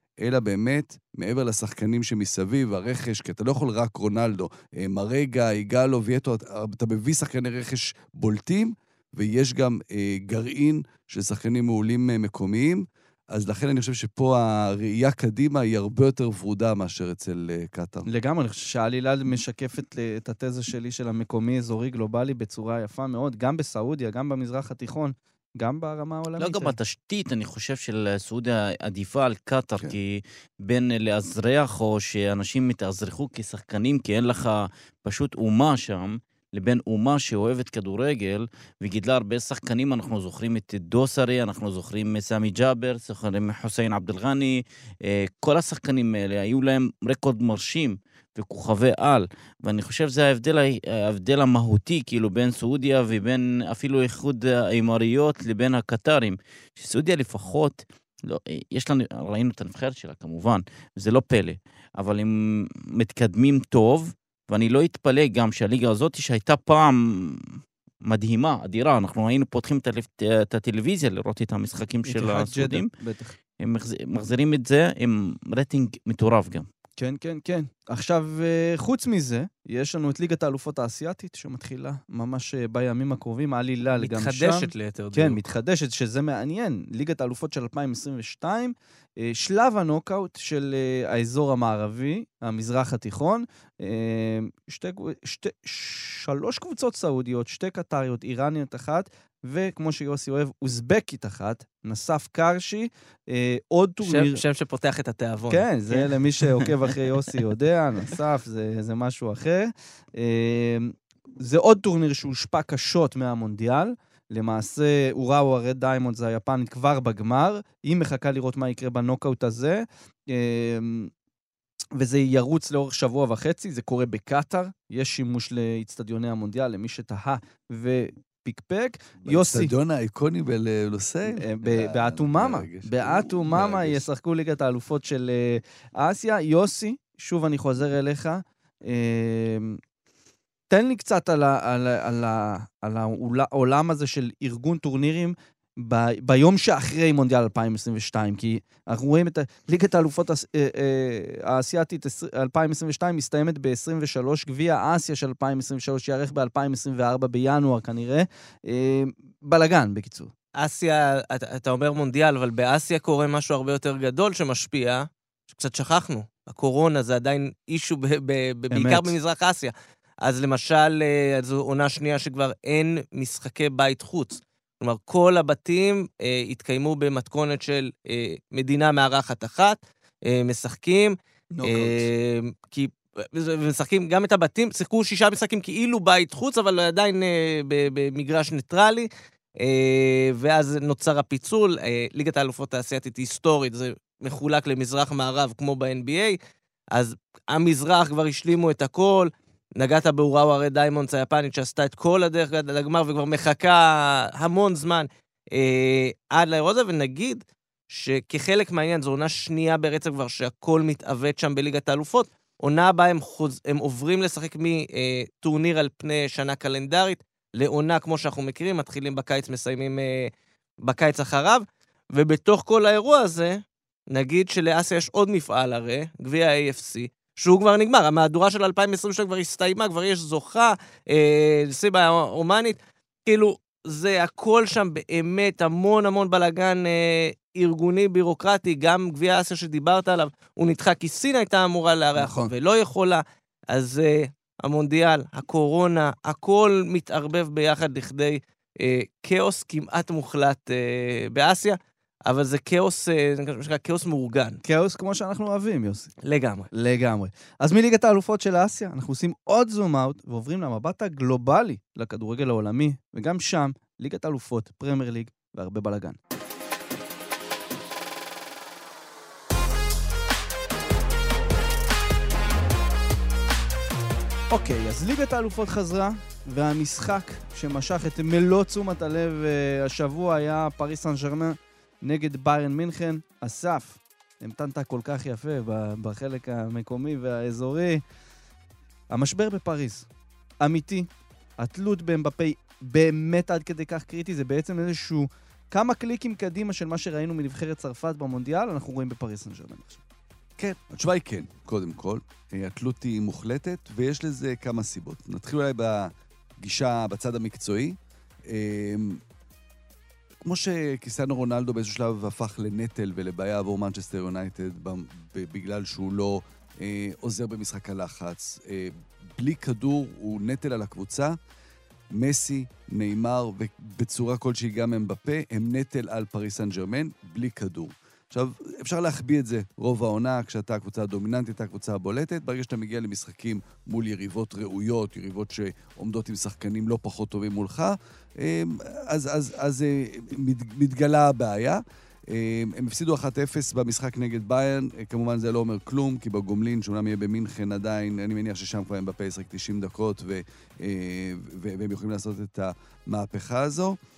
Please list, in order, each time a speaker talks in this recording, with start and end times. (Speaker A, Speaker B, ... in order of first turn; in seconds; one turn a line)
Speaker A: 0.2-18.1
Speaker B: 18.1-26.7
Speaker C: 26.4-72.9
Speaker B: 72.0-73.3
Speaker C: 73.6-76.7
Speaker B: 77.0-104.4
Speaker D: 84.0-85.4
Speaker D: 104.0-106.0
Speaker B: 105.5-121.1
Speaker B: 122.0-129.7
Speaker A: 129.2-134.0
Speaker B: 131.3-139.8
Speaker B: 140.7-160.3
Speaker D: 160.6-189.1
Speaker B: 168.7-169.1
Speaker B: 181.5-182.1
Speaker D: 189.6-196.4
Speaker D: 196.9-220.3
Speaker D: 220.8-254.6
Speaker B: 242.2-242.5
Speaker B: 254.6-256.1
Speaker D: 256.2-256.7
Speaker B: 256.7-266.2
Speaker B: 274.5-288.0
Speaker B: 289.1-290.1
Speaker B: 290.6-300.0
Speaker A: 300.6-309.2
Speaker A: 310.4-321.4
Speaker A: 322.1-354.0